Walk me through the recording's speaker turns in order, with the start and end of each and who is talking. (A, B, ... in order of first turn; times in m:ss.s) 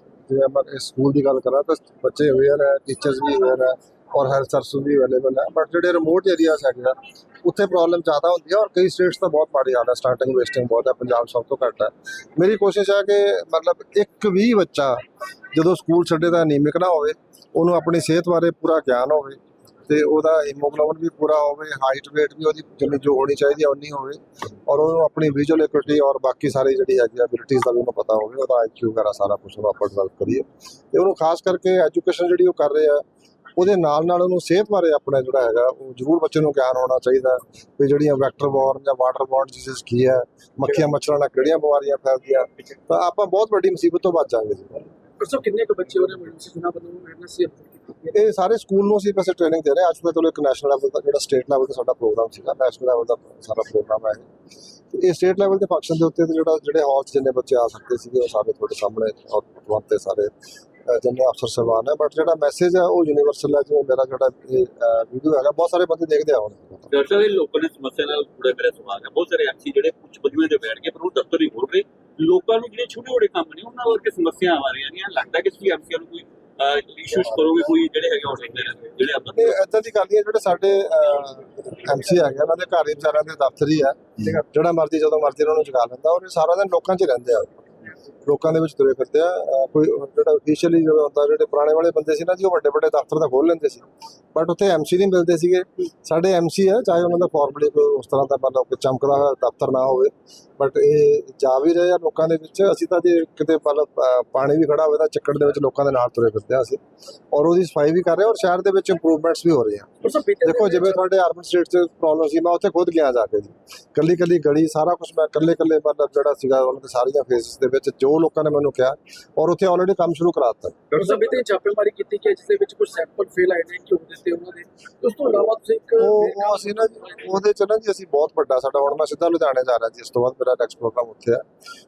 0:00.3-0:15.0 A
0:15.5-0:33.0 A
0:33.6-0:44.9 A
0:45.2-0:48.2 B
0:48.1-0:54.3 A
0:54.9-1:00.3 A
1:00.9-1:06.9 A
1:06.9-1:19.6 C
1:19.3-1:27.7 A
1:28.2-1:46.8 A
1:47.3-1:49.9 A
1:50.0-1:51.0 B
1:50.4-2:00.8 A
2:00.9-2:07.1 B
2:06.0-2:11.4 A